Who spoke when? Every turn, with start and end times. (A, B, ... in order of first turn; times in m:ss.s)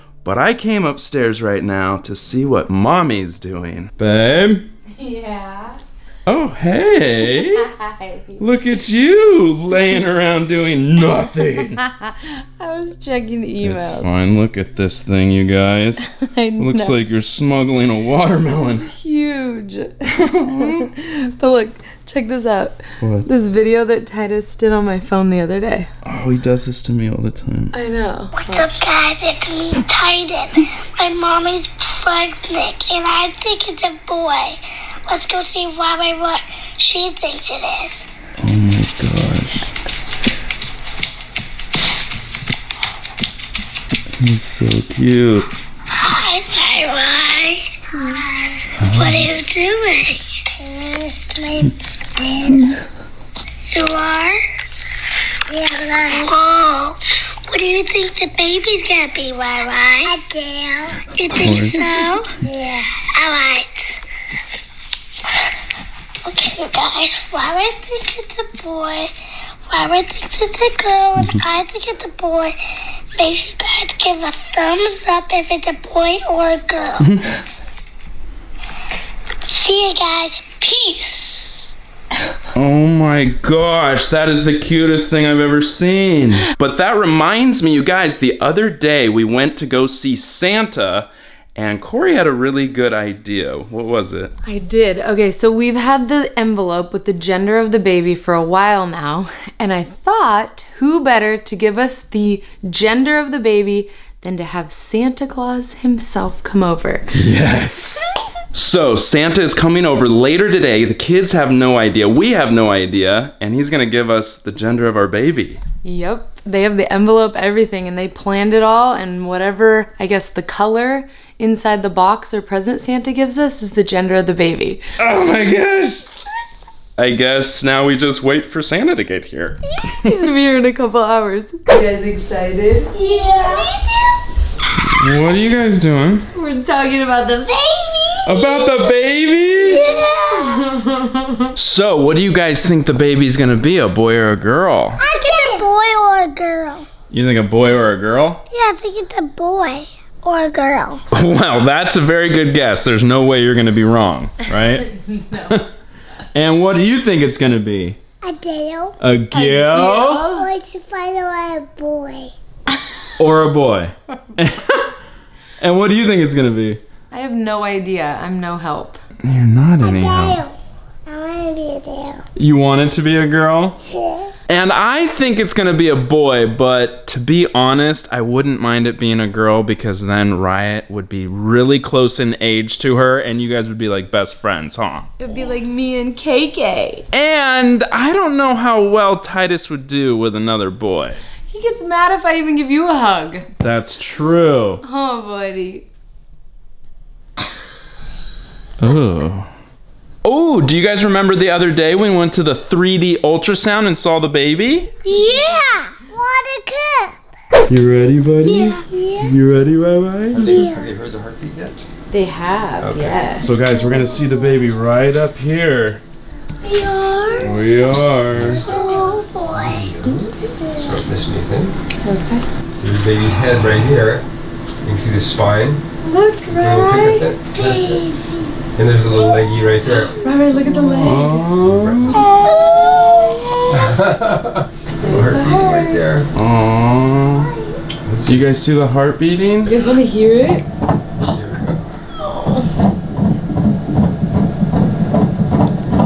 0:00.2-0:04.7 A
0:05.0-0:05.8 B
0:06.2-0:07.7 A
0:07.3-0:08.4 B
0:08.4-0:11.8 A
0:11.9-0:14.2 B
0:13.6-0:18.8 A
0:16.1-0:17.0 B
0:18.7-0:25.9 B
0:20.3-0:20.9 A
0:23.0-0:23.3 A
0:26.0-0:27.7 A
0:27.7-0:28.8 B
0:28.4-0:38.0 C
0:38.4-0:39.6 A
0:44.2-0:45.5 A
0:46.0-0:47.7 C
0:47.9-0:48.2 B
0:48.8-0:49.3 A
0:48.8-0:52.3 C
0:52.3-0:52.8 A
0:53.7-0:54.4 C
0:55.5-0:57.0 C
0:57.5-1:04.0 C
1:01.3-1:02.2 A
1:06.2-1:09.1 C
1:09.7-1:12.6 C
1:11.2-1:11.4 A
1:13.2-1:17.0 C
1:17.0-1:17.4 A
1:19.4-1:21.5 C
1:22.5-1:34.3 A
1:34.4-1:47.1 B
1:47.1-1:55.6 A
1:55.8-2:04.8 B
2:05.0-2:06.1 A
2:07.0-2:09.6 A
2:10.0-2:12.9 B
2:12.9-2:14.2 C
2:14.8-2:16.2 A
2:16.3-2:18.8 B
2:18.2-2:19.8 A
2:19.6-2:21.5 B
2:19.7-2:20.7 C
2:21.6-2:25.0 A
2:25.0-2:26.9 C
2:27.1-2:28.4 A
2:28.5-2:31.0 C
2:31.1-2:34.9 A
2:34.9-2:35.6 B
2:36.3-2:38.0 A
2:38.2-2:39.0 C
2:39.0-2:40.3 A
2:39.3-2:40.5 B
2:40.2-2:42.3 C
2:43.2-2:44.9 A
2:45.6-2:46.8 A
2:47.1-2:49.0 B
2:49.2-2:50.4 A
2:49.8-2:50.5 C
2:51.1-2:52.2 C
2:52.4-2:53.8 A
2:53.9-2:54.3 C
2:54.5-3:05.1 A
3:05.2-3:07.0 B
3:07.1-3:11.2 A
3:11.5-3:13.4 B
3:13.6-3:14.8 A
3:14.8-3:15.8 B
3:18.8-3:19.5 A
3:20.2-3:24.9 A
3:25.0-3:27.2 C
3:27.7-3:30.4 A
3:28.4-3:29.3 C
3:30.3-3:31.8 D
3:30.4-3:30.9 C
3:32.1-3:33.5 B
3:32.8-3:33.2 D
3:33.4-3:36.0 A
3:36.6-3:37.6 C
3:37.4-3:38.6 A
3:38.3-3:41.7 D
3:38.6-3:39.9 C
3:40.0-3:40.5 B
3:40.6-3:41.0 C
3:42.0-3:42.5 B
3:42.7-3:44.2 D
3:44.8-3:45.8 D
3:46.0-3:46.9 B
3:46.5-3:48.1 D
3:46.7-3:48.5 C
3:48.7-3:50.1 D
3:50.2-3:51.5 B
3:51.0-3:52.6 A
3:51.6-3:52.3 D
3:52.5-3:53.3 C
3:53.7-3:56.3 D
3:55.0-3:56.0 B
3:56.3-3:57.5 A
3:58.0-3:58.5 D
3:58.2-3:59.7 A
3:59.6-4:00.6 B
4:01.3-4:01.8 D
4:02.2-4:02.7 B